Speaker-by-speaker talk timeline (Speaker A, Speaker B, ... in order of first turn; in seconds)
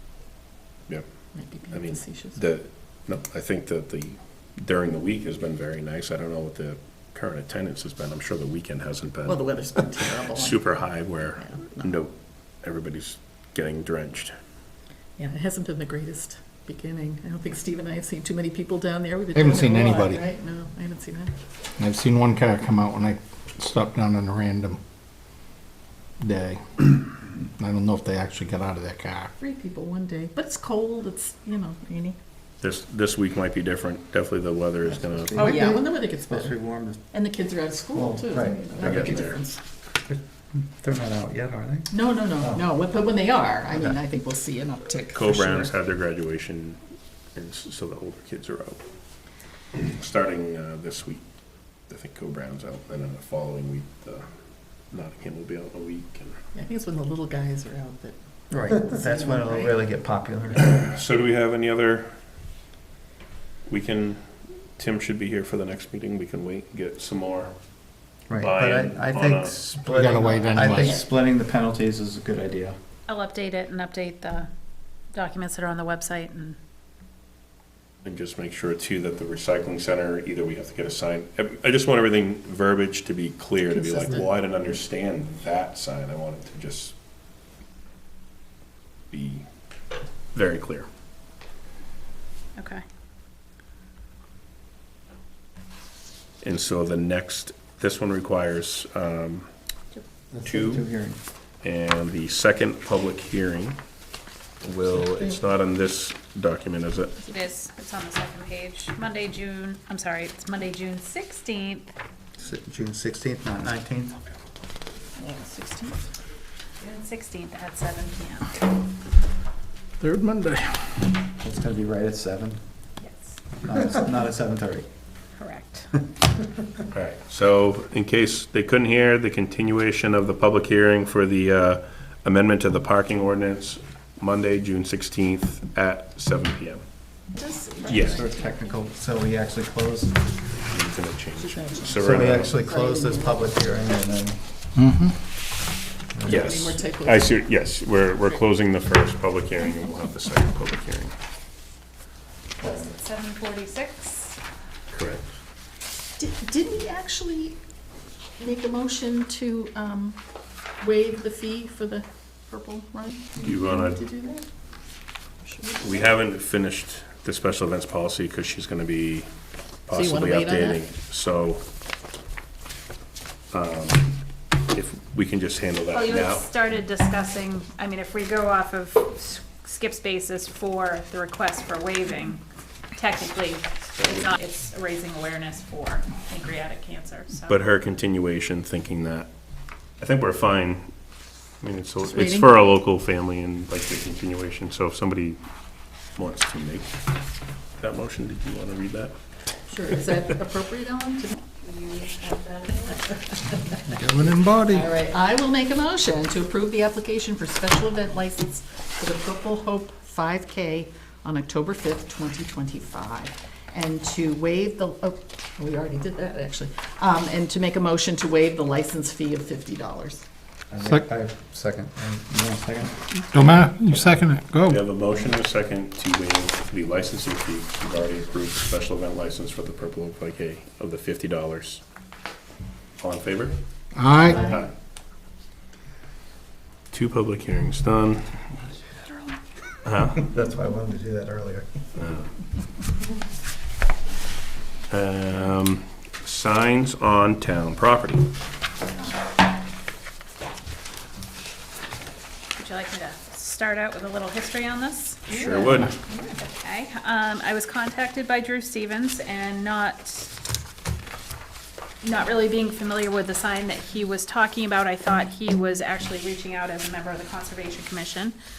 Speaker A: 1.3-2.4, 9.2-10.8, 11.4-11.9, 15.2-21.3, 29.4-32.2, 35.3-36.5, 37.1-39.6, 41.9-45.7, 56.5-59.8, 115.2-116.1, 137.3-138.8, 141.3-141.9, 142.4-143.5, 146.2-147.6, 156.2-157.6, 158.4-160.2, 160.8-164.4, 165.4-166.0, 169.9-170.9, 192.1-192.5, 199.7-201.4, 204.6-220.2, 255.3-256.4
Speaker B: 1.7-14.3, 32.6-35.6, 38.8-39.4, 45.1-46.8, 47.3-48.8, 49.7-54.3, 54.8-56.4, 60.6-62.2, 63.7-67.5, 68.4-69.6, 78.0-87.0, 89.1-89.5, 90.3-90.9, 96.4-99.5, 100.4-100.9, 101.6-103.8, 104.6-107.2, 126.9-136.8, 137.8-138.2, 140.7-142.6, 146.2-151.1, 154.9-155.3, 163.4-164.0, 165.8-169.3, 169.8-171.6, 173.5-174.2, 174.7-176.4, 184.0-184.3, 187.5-189.3, 190.0-190.9, 191.6-195.4, 196.1-196.9, 197.8-199.1, 223.3-231.8, 233.0-233.6, 234.2-234.7, 236.9-238.5, 239.8-240.2, 242.0-242.3, 244.9-248.3, 255.3-255.9
Speaker C: 19.3-20.2, 21.8-24.8, 26.2-29.3, 69.8-71.0, 120.0-120.6, 144.8-145.1, 203.9-204.9, 223.3-224.8, 233.9-234.4
Speaker D: 34.9-37.0, 37.9-39.3, 40.5-42.6, 58.5-60.8, 68.3-72.8, 100.3-101.2, 112.4-114.2, 121.4-122.6, 123.6-124.8, 137.9-140.3, 141.9-144.5, 146.1-146.6, 220.7-223.1, 240.1-241.9
Speaker E: 73.1-74.5, 75.1-76.6, 92.5-92.8, 107.3-111.9, 116.8-118.7, 123.0-123.4, 125.4-125.9, 152.6-154.4, 175.9-182.4, 182.9-187.6, 201.6-203.1, 252.6-255.8, 256.3-260.3, 262.0-268.4